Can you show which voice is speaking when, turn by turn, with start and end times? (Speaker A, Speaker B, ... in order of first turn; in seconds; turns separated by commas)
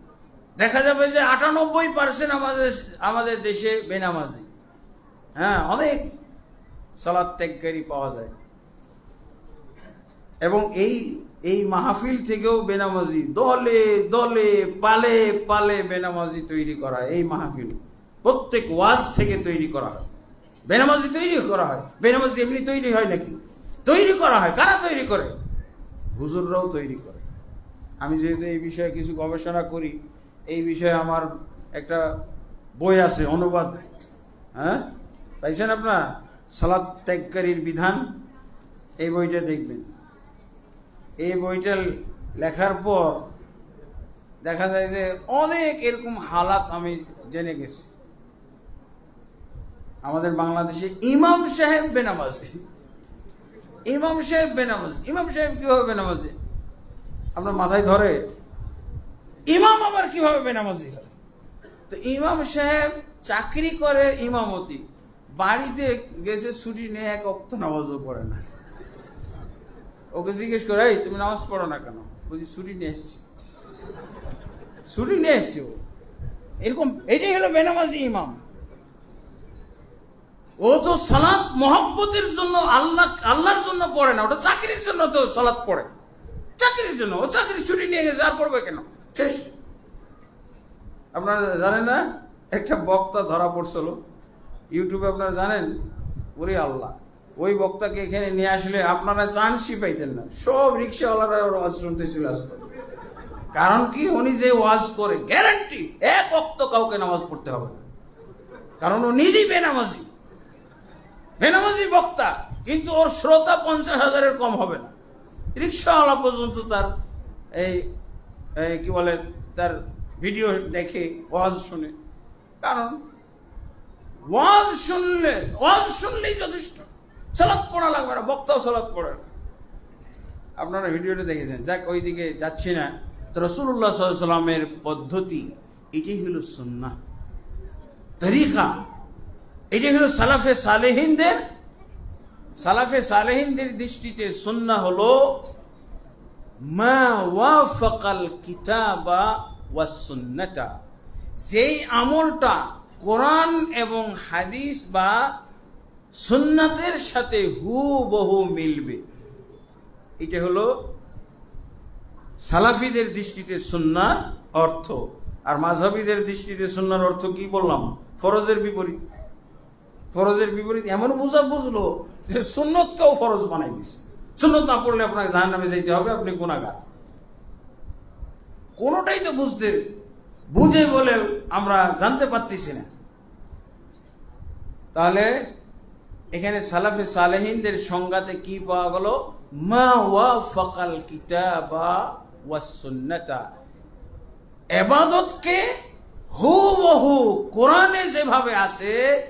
Speaker A: 0.6-4.5, Speaker A: 5.3-6.2, Speaker A: 7.0-8.3, Speaker A: 10.4-20.1, Speaker A: 20.7-25.4, Speaker A: 26.1-27.2, Speaker A: 28.0-32.2, Speaker A: 32.8-33.8, Speaker A: 34.5-34.9, Speaker A: 35.4-38.1, Speaker A: 39.0-39.9, Speaker A: 41.2-43.3, Speaker A: 44.4-47.9, Speaker A: 50.0-52.6, Speaker A: 53.9-56.3, Speaker A: 57.3-58.3, Speaker A: 59.5-61.1, Speaker A: 61.9-68.5, Speaker A: 70.1-73.2, Speaker A: 74.8-75.8, Speaker A: 76.6-78.4, Speaker A: 80.6-85.9, Speaker A: 86.6-89.5, Speaker A: 91.1-94.0, Speaker A: 94.7-95.8, Speaker A: 96.3-102.7, Speaker A: 103.5-107.8, Speaker A: 108.8-110.1, Speaker A: 111.4-114.9, Speaker A: 115.5-116.9, Speaker A: 117.5-117.9, Speaker A: 118.5-121.9, Speaker A: 122.6-123.0, Speaker A: 124.3-129.2, Speaker A: 130.6-136.9, Speaker A: 138.2-138.7, Speaker A: 139.7-141.4, Speaker A: 142.6-145.3, Speaker A: 146.7-150.7, Speaker A: 151.4-155.3, Speaker A: 156.2-159.0, Speaker A: 160.2-160.7, Speaker A: 162.4-169.0, Speaker A: 170.1-176.8, Speaker A: 178.8-179.8, Speaker A: 180.5-182.9, Speaker A: 184.9-185.3, Speaker A: 186.3-193.5, Speaker A: 194.7-195.7, Speaker A: 196.3-199.2